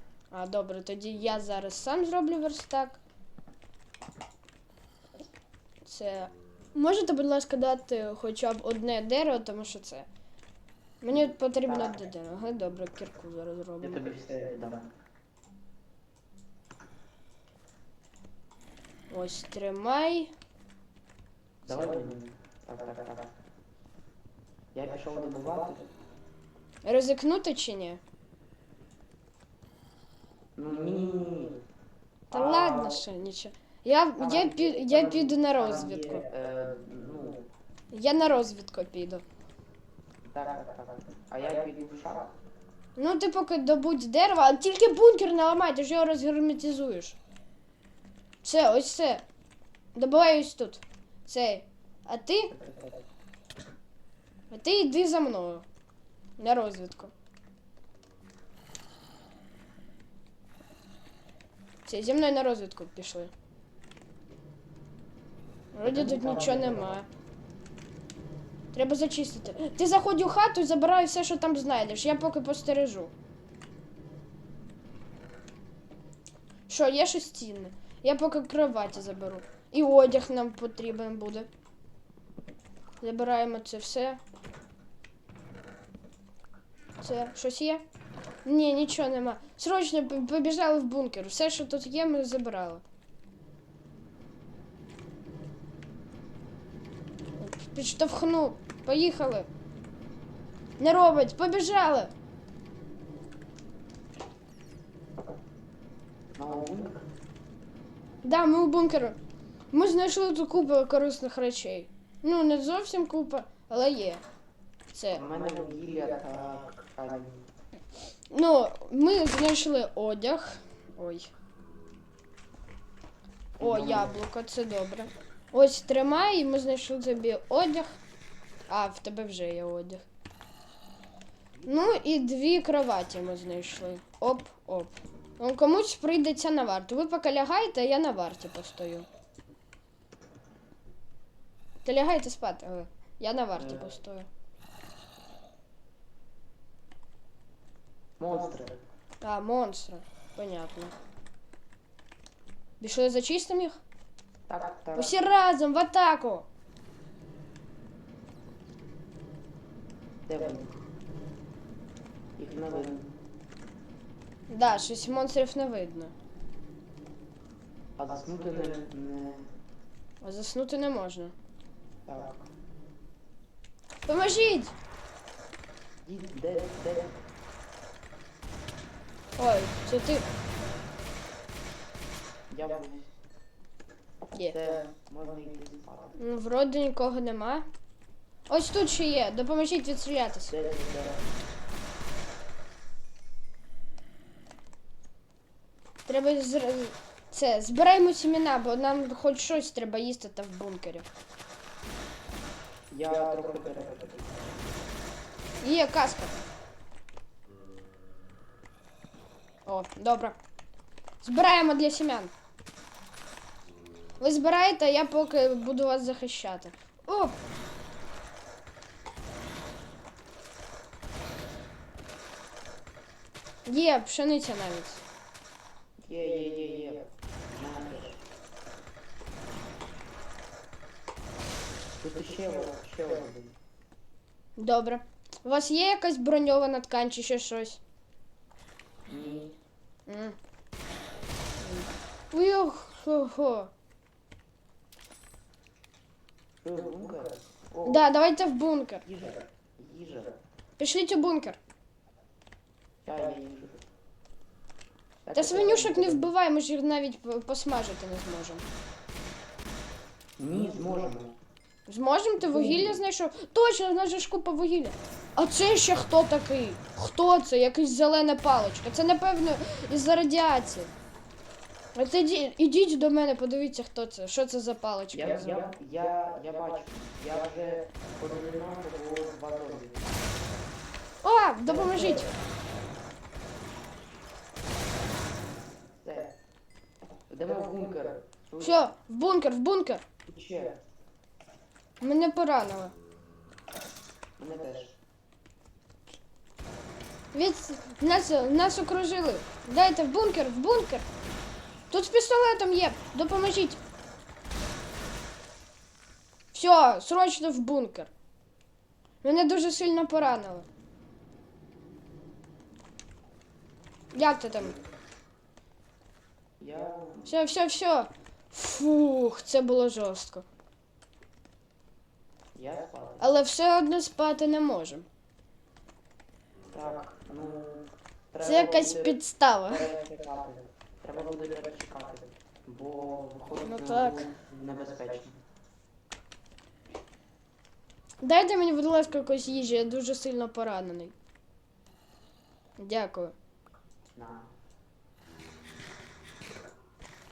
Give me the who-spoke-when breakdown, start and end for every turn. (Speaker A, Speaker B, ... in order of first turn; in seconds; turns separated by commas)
Speaker A: 0.3-3.0, Speaker A: 5.8-10.1, Speaker A: 11.0-14.1, Speaker B: 11.1-12.1, Speaker B: 13.8-14.9, Speaker A: 19.1-20.3, Speaker B: 21.6-23.3, Speaker B: 24.7-25.9, Speaker A: 26.8-28.0, Speaker B: 30.6-31.6, Speaker B: 32.3-33.0, Speaker A: 32.3-36.2, Speaker B: 34.2-37.5, Speaker A: 37.9-39.2, Speaker B: 40.2-42.3, Speaker A: 43.0-47.2, Speaker A: 48.4-49.2, Speaker A: 49.9-52.5, Speaker B: 52.5-53.0, Speaker A: 54.5-55.6, Speaker A: 56.4-57.1, Speaker A: 61.9-63.3, Speaker A: 65.7-67.1, Speaker B: 65.8-67.0, Speaker A: 68.7-73.1, Speaker A: 76.7-81.5, Speaker A: 83.0-84.2, Speaker A: 87.0-87.8, Speaker A: 88.4-92.8, Speaker A: 97.4-99.5, Speaker A: 100.8-102.1, Speaker B: 106.3-107.1, Speaker A: 108.2-109.2, Speaker A: 109.7-114.2, Speaker A: 114.9-115.2, Speaker B: 115.1-117.4, Speaker A: 118.3-121.3, Speaker B: 123.6-124.2, Speaker A: 123.6-127.9, Speaker A: 128.7-130.0, Speaker A: 131.7-139.1, Speaker A: 141.8-144.3, Speaker B: 143.6-143.9, Speaker B: 148.2-148.8, Speaker A: 149.2-150.9, Speaker A: 152.8-153.8, Speaker B: 154.5-155.1, Speaker A: 154.9-156.5, Speaker B: 160.2-160.7, Speaker B: 162.4-163.1, Speaker A: 164.5-166.1, Speaker B: 168.0-169.5, Speaker A: 170.2-171.3, Speaker B: 172.1-172.4, Speaker A: 174.1-174.7, Speaker B: 176.0-177.2, Speaker A: 179.4-180.2, Speaker B: 182.5-183.1, Speaker B: 184.4-186.2, Speaker A: 186.2-187.7, Speaker A: 188.5-190.5, Speaker B: 190.5-191.2, Speaker A: 196.1-201.1, Speaker B: 202.9-204.3, Speaker A: 205.6-206.4, Speaker A: 209.7-210.4, Speaker A: 211.2-212.3, Speaker A: 214.2-217.3, Speaker A: 223.6-225.0, Speaker B: 226.0-228.2, Speaker B: 232.0-233.5, Speaker A: 234.6-237.8, Speaker B: 239.1-239.6, Speaker A: 240.1-240.3, Speaker A: 241.6-243.7, Speaker B: 246.6-248.1, Speaker A: 247.8-249.0, Speaker B: 249.1-250.3, Speaker A: 250.8-251.6, Speaker B: 253.0-253.8, Speaker B: 255.2-256.3, Speaker A: 255.3-258.6, Speaker B: 260.4-261.3, Speaker A: 261.9-270.9, Speaker B: 262.4-263.0, Speaker A: 271.9-275.5, Speaker B: 275.1-280.1, Speaker A: 281.2-282.3, Speaker B: 286.0-286.3, Speaker B: 287.3-288.9, Speaker A: 288.6-290.0, Speaker B: 290.2-290.8, Speaker A: 292.0-292.9, Speaker B: 294.4-295.0, Speaker A: 297.3-301.1, Speaker A: 301.9-303.8, Speaker A: 306.5-308.1, Speaker A: 309.2-310.6, Speaker A: 314.1-314.8, Speaker B: 316.6-317.3, Speaker A: 317.2-320.4, Speaker B: 322.5-323.3, Speaker A: 323.2-325.1, Speaker B: 326.7-335.4, Speaker A: 328.4-329.9, Speaker A: 333.6-334.3, Speaker A: 338.2-341.1, Speaker A: 342.8-343.3, Speaker B: 344.1-344.5